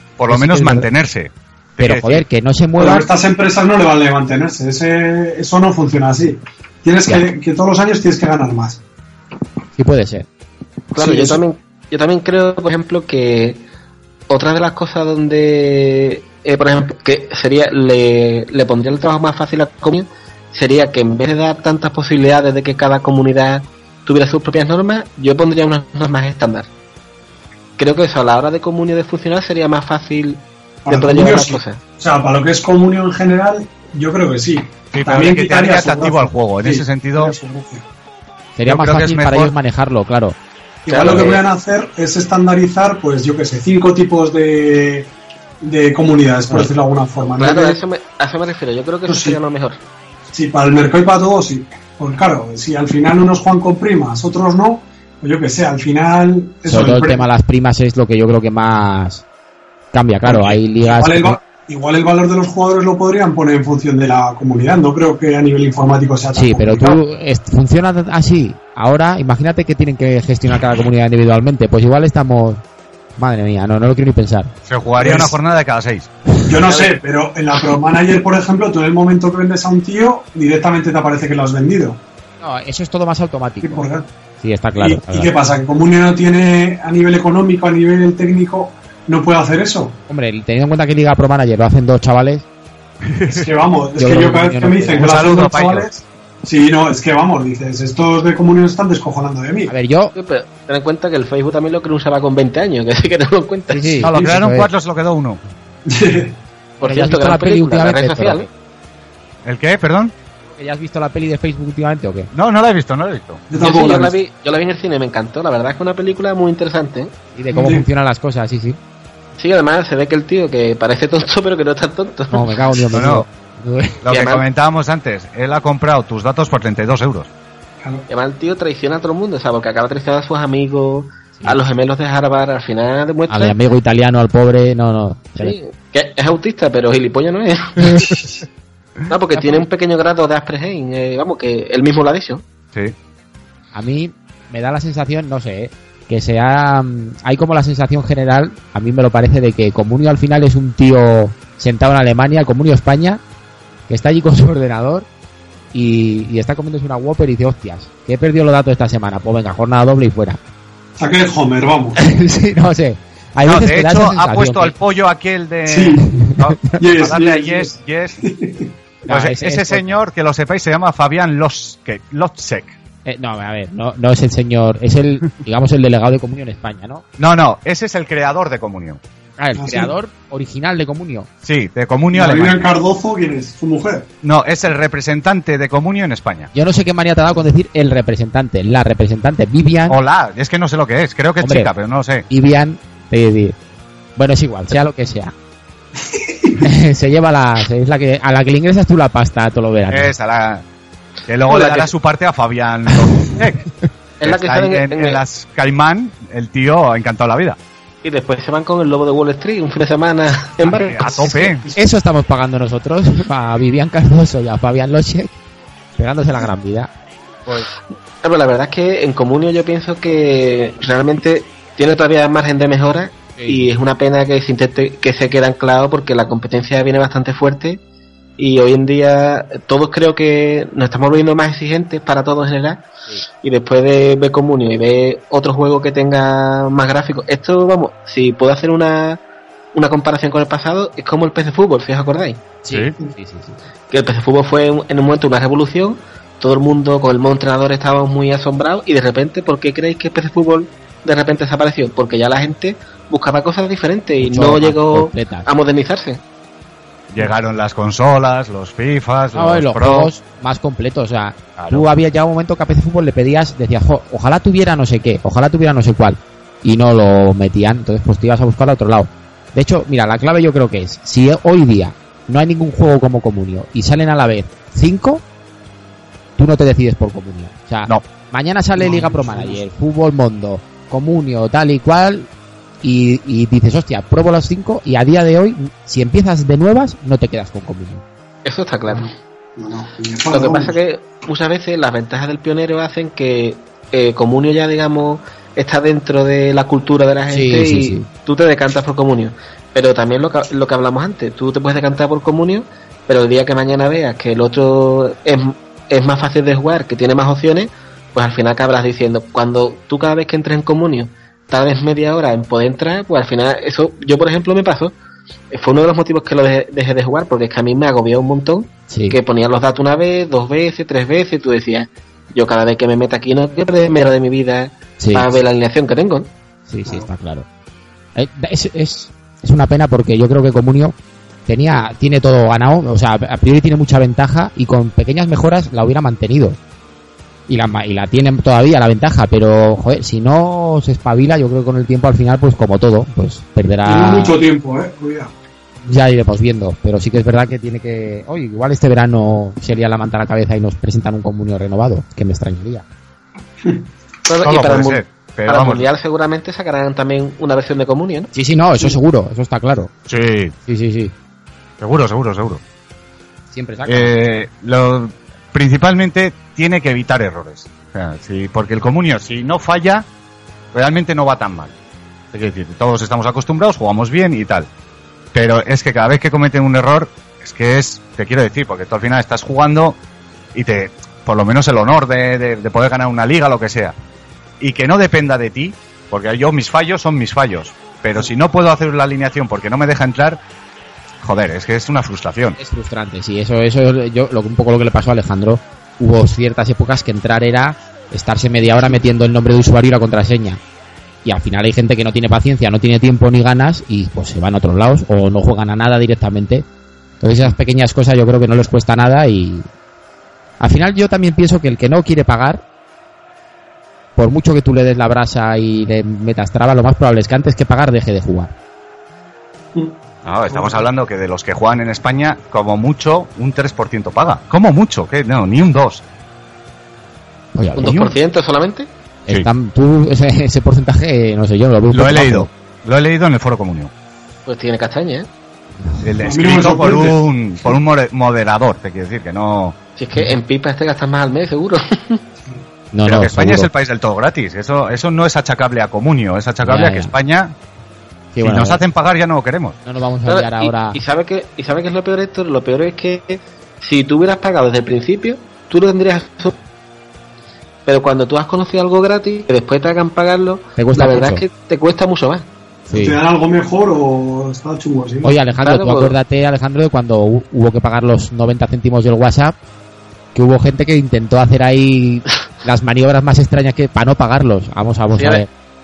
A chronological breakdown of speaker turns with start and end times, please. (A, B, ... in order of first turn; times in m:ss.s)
0:00.2-0:02.2 A
0:00.3-0:00.9 B
0:01.8-0:03.1 B
0:02.8-0:08.8 C
0:09.8-0:10.3 B
0:10.9-0:13.6 D
0:11.0-0:11.4 C
0:14.3-0:26.7 D
0:27.8-0:31.8 D
0:30.8-0:37.9 C
0:34.9-0:37.3 A
0:38.6-0:40.4 B
0:38.7-0:39.5 A
0:40.9-0:45.1 C
0:40.9-0:41.4 D
0:45.6-0:47.8 C
0:47.4-0:49.8 D
0:49.1-0:49.4 C
0:50.3-0:57.2 C
0:56.7-0:59.2 B
0:59.9-1:01.4 B
1:00.2-1:07.0 C
1:06.4-1:12.6 B
1:13.2-1:14.5 B
1:14.7-1:16.1 A
1:15.0-1:15.4 C
1:16.4-1:22.0 C
1:22.4-1:23.8 B
1:23.6-1:24.1 C
1:24.4-1:25.3 B
1:24.8-1:30.0 C
1:30.1-1:32.4 B
1:33.1-1:33.6 A
1:33.3-1:39.7 C
1:34.0-1:35.2 B
1:35.0-1:35.9 A
1:39.7-1:40.1 B
1:40.2-1:44.0 D
1:43.7-1:44.7 B
1:44.0-1:45.4 A
1:44.1-1:44.4 C
1:45.9-1:46.4 C
1:46.8-1:48.5 D
1:46.8-1:48.5 B
1:49.4-1:50.1 A
1:50.5-1:52.3 B
1:52.3-1:53.4 A
1:53.5-1:54.1 C
1:53.6-1:57.1 D
1:57.4-1:58.8 B
1:57.5-1:57.9 C
1:59.4-2:02.5 D
2:02.3-2:04.0 B
2:02.9-2:03.2 A
2:04.0-2:07.3 A
2:04.1-2:04.4 D
2:07.8-2:08.1 C
2:08.1-2:13.6 D
2:13.3-2:15.6 B
2:15.4-2:18.2 D
2:17.9-2:18.2 B
2:19.1-2:22.4 D
2:23.7-2:33.2 B
2:33.9-2:35.1 B
2:35.7-2:40.4 B
2:41.0-2:42.0 C
2:42.0-2:44.8 B
2:43.4-2:48.2 A
2:45.7-2:46.1 C
2:46.1-2:46.8 B
2:46.8-2:48.7 C
2:49.0-2:50.0 B
2:49.1-2:52.8 A
2:53.0-2:57.0 B
2:57.2-2:59.0 A
2:59.4-3:01.3 B
2:59.6-2:59.9 C
3:01.4-3:02.7 A
3:02.1-3:04.1 C
3:04.2-3:06.5 A
3:06.5-3:10.0 B
3:09.9-3:12.3 A
3:11.4-3:11.7 B
3:12.3-3:13.6 B
3:14.2-3:15.3 B
3:16.1-3:16.6 C
3:16.6-3:20.1 B
3:19.9-3:20.6 A
3:21.3-3:23.7 A
3:21.5-3:21.9 D
3:24.2-3:25.2 D
3:24.2-3:27.6 A
3:28.0-3:31.7 D
3:30.6-3:31.6 A
3:31.7-3:35.3 B
3:36.0-3:36.9 B
3:38.2-3:47.8 D
3:43.4-3:43.7 B
3:48.4-3:52.8 D
3:53.4-3:59.2 D
3:59.7-4:02.4 D
4:02.6-4:03.6 B
4:03.9-4:16.2 D
4:14.2-4:15.5 B
4:17.1-4:20.1 A
4:19.3-4:35.2 B
4:21.6-4:21.8 A
4:36.4-4:42.3 B
4:38.8-4:39.6 C
4:42.8-4:48.0 B
4:48.4-4:49.1 D
4:49.6-4:50.8 C
4:50.3-5:15.0 D
4:57.3-4:58.1 B
5:15.5-5:26.3 D
5:18.9-5:19.2 B
5:25.0-5:25.3 B
5:26.7-5:27.5 B
5:28.2-5:31.0 B
5:31.5-5:36.6 B
5:37.5-5:44.4 B
5:43.8-5:45.3 C
5:45.8-5:52.8 B
5:54.3-5:58.3 D
5:54.4-5:55.9 A
5:58.3-5:59.9 B
6:00.1-6:00.6 A
6:00.7-6:01.1 B
6:01.8-6:02.6 A
6:03.5-6:04.2 B
6:03.9-6:10.1 A
6:10.7-6:11.7 A
6:12.3-6:14.7 A
6:15.3-6:20.0 A
6:20.5-6:24.0 A
6:24.6-6:30.4 A
6:31.2-6:32.6 A
6:32.6-6:40.6 B
6:41.2-6:46.7 B
6:47.2-6:49.7 B
6:50.6-6:52.6 B
6:54.2-6:58.5 B
7:00.2-7:06.0 A
7:00.5-7:00.9 C
7:07.6-7:08.1 B
7:07.8-7:08.9 D
7:07.9-7:08.1 A
7:09.3-7:12.5 B
7:11.9-7:13.9 A
7:14.5-7:15.3 D
7:16.0-7:19.8 A
7:16.2-7:17.3 C
7:20.0-7:22.2 D
7:22.9-7:23.7 B
7:23.0-7:27.6 A
7:26.6-7:27.1 B
7:28.3-7:28.8 B
7:28.4-7:29.8 A
7:29.8-7:31.0 B
7:30.3-7:36.6 D
7:37.9-7:42.5 D
7:40.8-7:41.4 B
7:42.9-7:43.2 B
7:42.9-7:45.4 C
7:45.2-7:49.6 B
7:45.6-7:46.2 D
7:50.4-7:55.5 B
7:55.1-7:55.4 D